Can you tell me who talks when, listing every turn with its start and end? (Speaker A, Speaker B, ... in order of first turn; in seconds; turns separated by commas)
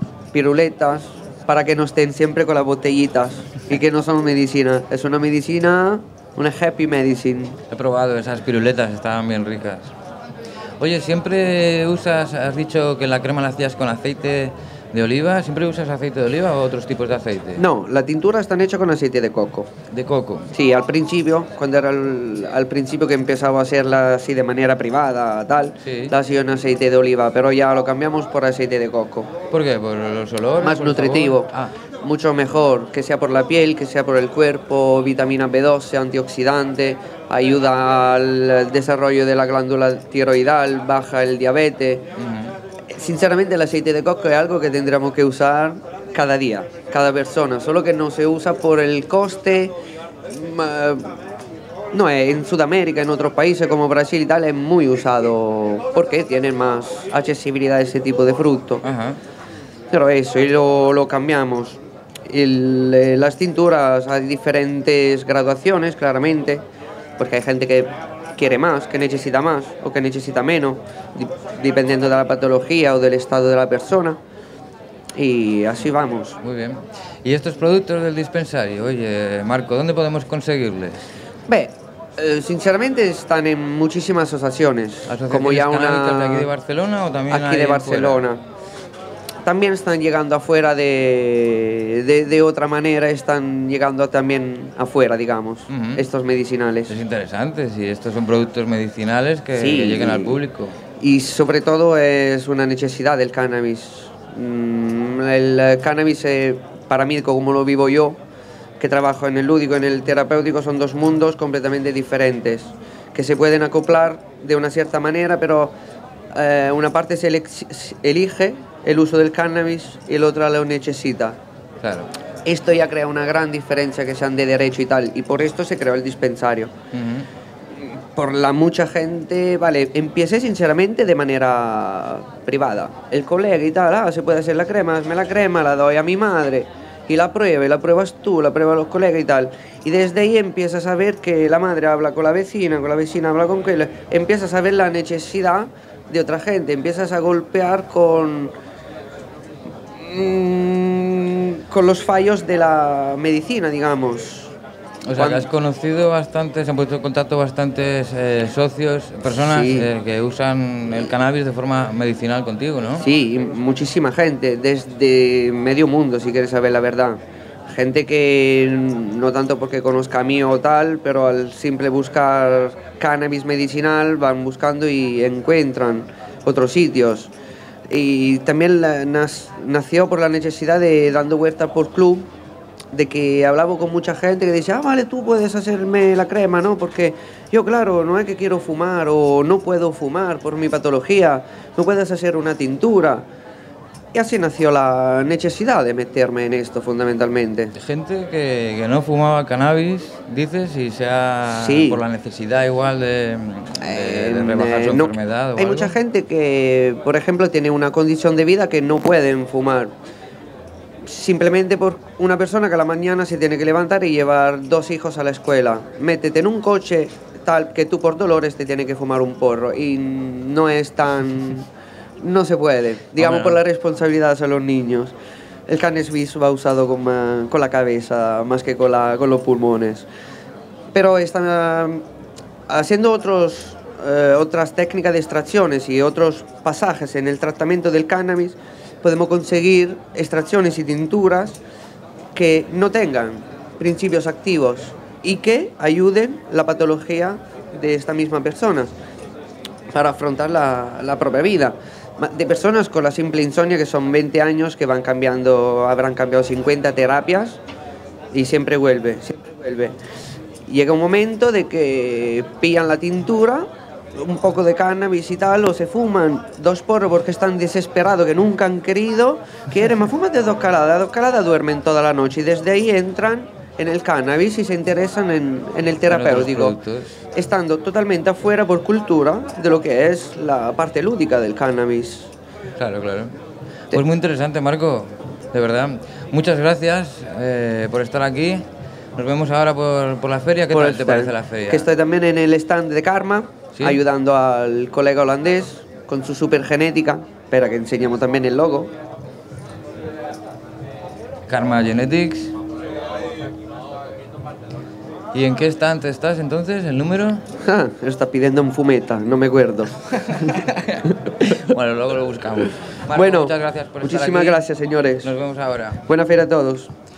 Speaker A: 0.3-7.6, Speaker B: 7.7-9.9, Speaker B: 10.8-17.6, Speaker A: 17.6-19.7, Speaker B: 19.9-20.5, Speaker A: 20.5-29.3, Speaker B: 25.8-26.1, Speaker B: 29.5-31.7, Speaker A: 30.6-42.0, Speaker B: 42.2-42.5, Speaker A: 42.9-49.7, Speaker A: 50.3-51.1, Speaker A: 51.9-58.8, Speaker B: 58.8-59.2, Speaker A: 59.9-66.6, Speaker A: 67.2-74.2, Speaker A: 75.1-76.4, Speaker B: 76.4-81.0, Speaker A: 81.5-86.5, Speaker B: 85.1-88.2, Speaker A: 87.3-88.4, Speaker A: 89.4-97.0, Speaker B: 95.7-96.0, Speaker B: 96.9-100.7, Speaker A: 99.5-100.4, Speaker A: 101.0-108.2, Speaker A: 108.8-115.7, Speaker A: 116.3-121.4, Speaker B: 121.8-122.1, Speaker A: 122.4-126.7, Speaker B: 126.9-127.3, Speaker A: 127.8-148.5, Speaker A: 149.9-154.5, Speaker B: 155.1-163.0, Speaker A: 155.1-155.4, Speaker A: 159.3-159.9, Speaker A: 163.0-177.3, Speaker A: 177.9-182.3, Speaker A: 182.9-193.2, Speaker A: 194.1-197.7, Speaker B: 197.7-205.9, Speaker A: 201.5-202.0, Speaker A: 203.8-209.9, Speaker A: 211.0-221.7, Speaker A: 222.2-225.1, Speaker B: 223.2-223.6, Speaker A: 225.7-230.1, Speaker A: 230.9-232.0, Speaker A: 232.7-241.6, Speaker A: 242.3-248.9, Speaker A: 249.9-257.6, Speaker A: 258.3-259.9, Speaker A: 260.7-276.8, Speaker B: 276.1-277.1, Speaker A: 277.3-282.3, Speaker B: 282.8-283.3, Speaker B: 283.9-288.6, Speaker B: 289.2-291.9, Speaker A: 290.7-298.9, Speaker B: 293.7-294.0, Speaker B: 301.5-302.6, Speaker B: 305.3-307.4, Speaker A: 307.6-311.6, Speaker B: 310.4-310.8, Speaker B: 311.4-314.6, Speaker A: 313.1-315.3, Speaker B: 315.2-316.0, Speaker A: 316.0-316.9